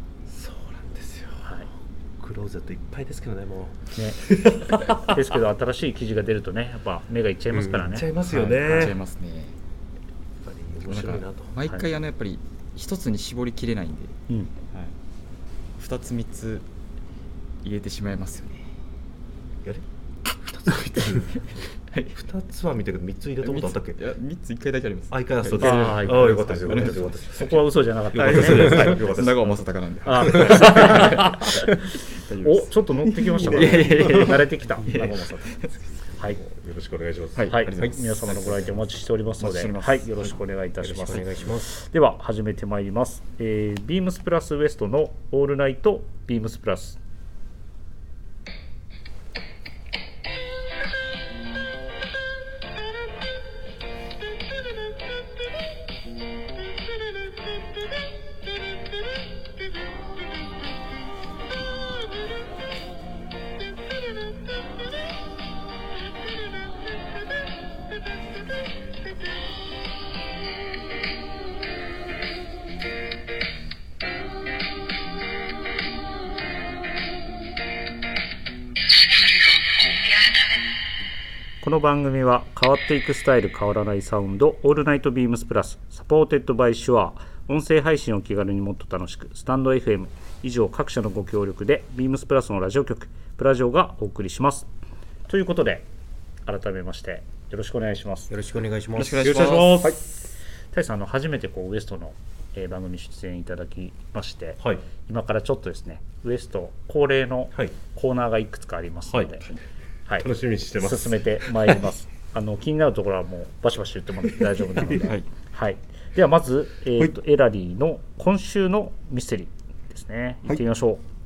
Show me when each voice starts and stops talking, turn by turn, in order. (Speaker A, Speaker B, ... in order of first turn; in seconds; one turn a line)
Speaker A: 0.3-1.5
Speaker B: 1.4-1.7
Speaker A: 2.2-5.2
Speaker B: 5.1-8.9
Speaker C: 7.5-7.9
Speaker A: 7.7-9.0
Speaker D: 8.6-9.6
Speaker A: 10.4-11.5
Speaker D: 10.9-14.2
Speaker D: 15.8-16.7
Speaker D: 17.6-18.7
Speaker A: 20.4-21.4
Speaker D: 21.3-22.2
Speaker A: 22.1-24.0
Speaker D: 23.4-27.4
Speaker A: 25.1-31.0
Speaker B: 25.6-29.0
Speaker D: 28.1-31.6
Speaker B: 30.1-35.6
Speaker D: 32.1-32.7
Speaker D: 33.2-35.7
Speaker A: 33.5-33.9
Speaker B: 36.1-36.4
Speaker A: 36.2-37.5
Speaker D: 37.4-38.9
Speaker B: 37.5-47.0
Speaker D: 39.4-40.3
Speaker C: 40.8-41.7
Speaker B: 81.6-94.7
Speaker B: 95.3-95.9
Speaker B: 96.5-98.3
Speaker C: 98.3-100.0
Speaker D: 99.0-100.0
Speaker A: 99.2-100.0
Speaker B: 100.7-109.5
Speaker A: 109.1-109.5
Speaker A: 110.2-111.3
Speaker B: 110.8-121.0
Speaker A: 114.8-115.0
Speaker D: 114.9-115.3